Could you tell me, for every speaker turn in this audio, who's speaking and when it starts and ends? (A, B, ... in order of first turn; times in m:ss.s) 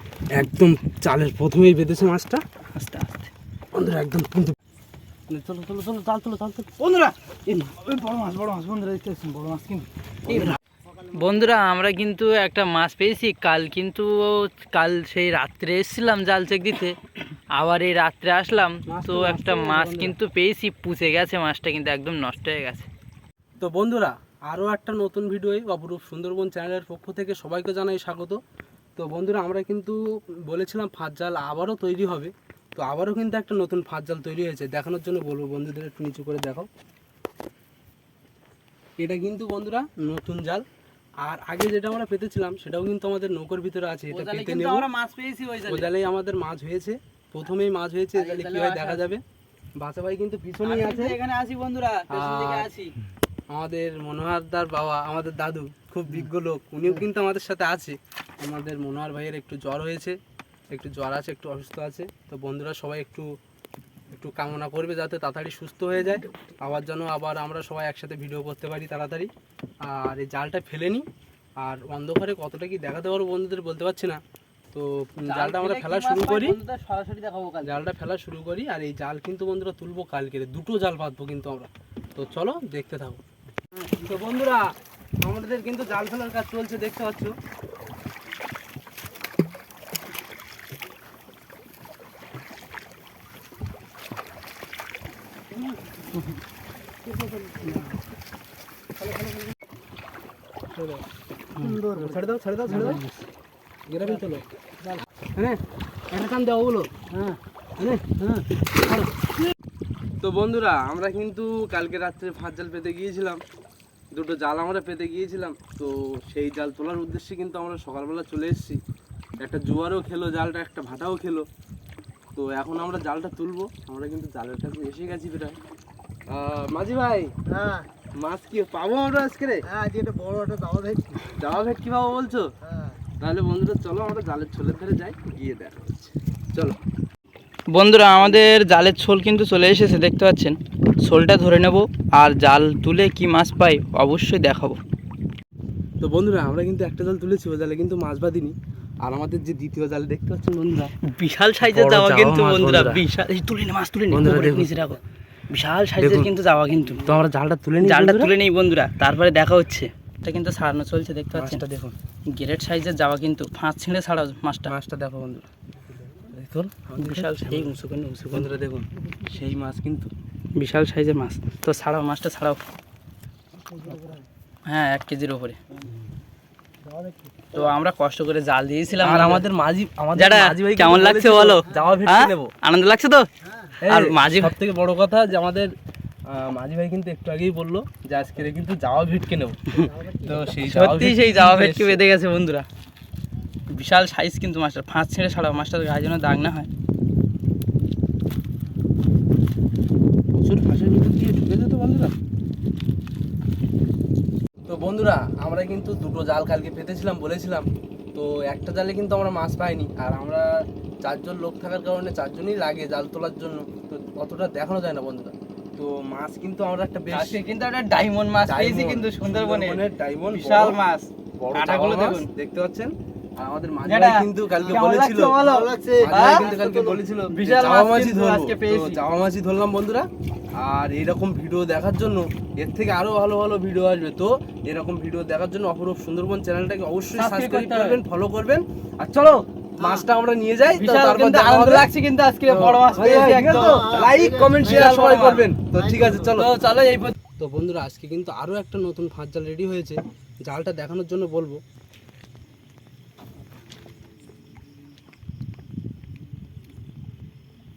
0:00.3-0:02.4 A
0:02.7-0:03.3 B
0:03.7-0:04.6 A
0:05.3-0:06.9 A
0:06.8-0:07.1 B
0:07.7-0:10.6 B
0:10.3-0:10.6 A
0:11.1-0:17.0 B
0:17.6-0:22.9 B
0:18.9-0:20.2 A
0:23.6-0:28.4 A
0:29.0-0:36.7 A
0:39.0-0:40.6 A
0:41.2-0:44.9 A
0:44.1-0:45.9 B
0:45.7-0:49.2 A
0:48.2-0:49.0 B
0:49.8-0:51.2 A
0:50.6-0:53.0 B
0:52.1-0:52.7 A
0:53.5-1:00.2 A
1:00.7-1:03.3 A
1:04.1-1:09.3 A
1:09.8-1:11.1 A
1:11.6-1:14.2 A
1:14.7-1:16.6 A
1:15.3-1:17.8 B
1:17.6-1:23.2 A
1:23.8-1:24.7 A
1:25.2-1:27.4 A
1:37.0-1:38.0 A
1:40.8-1:41.0 A
1:41.6-1:41.8 B
1:41.6-1:43.0 A
1:41.8-1:42.2 C
1:42.7-1:43.2 B
1:43.9-1:44.5 A
1:46.1-1:46.9 A
1:47.8-1:49.1 A
1:50.2-1:53.4 A
1:54.1-1:58.8 A
1:59.4-2:01.5 A
2:02.4-2:05.6 A
2:06.3-2:07.3 A
2:07.5-2:07.9 C
2:08.2-2:09.6 A
2:09.7-2:11.2 C
2:11.2-2:12.5 A
2:12.7-2:13.0 C
2:13.2-2:16.8 A
2:17.7-2:24.8 B
2:18.2-2:18.5 A
2:26.0-2:30.9 A
2:31.1-2:35.0 B
2:31.6-2:33.1 A
2:34.1-2:34.7 A
2:35.5-2:37.2 B
2:36.0-2:36.3 A
2:36.8-2:38.3 A
2:37.8-2:41.6 B
2:41.3-2:42.0 A
2:42.3-2:44.7 B
2:44.7-2:47.7 A
2:47.0-2:48.5 B
2:48.3-2:50.1 A
2:50.6-2:52.6 B
2:54.7-2:55.6 B
2:57.5-2:59.4 B
2:59.0-3:02.5 A
3:00.2-3:03.3 B
3:03.4-3:03.8 C
3:03.8-3:05.7 A
3:03.8-3:04.6 B
3:06.3-3:12.0 A
3:09.9-3:10.5 C
3:10.6-3:12.7 B
3:13.7-3:16.7 B
3:20.3-3:22.1 A
3:24.7-3:30.5 A
3:31.0-3:37.4 A
3:37.1-3:42.3 B
3:38.5-3:40.8 A
3:41.4-4:01.9 A
3:43.8-3:46.6 B
3:45.5-3:47.0 C
3:47.3-3:49.0 B
3:57.2-3:58.0 B
4:00.7-4:04.1 B
4:02.5-4:06.6 A
4:03.0-4:04.7 C
4:04.6-4:05.5 B
4:05.8-4:06.2 C
4:06.3-4:07.1 B
4:07.4-4:11.6 A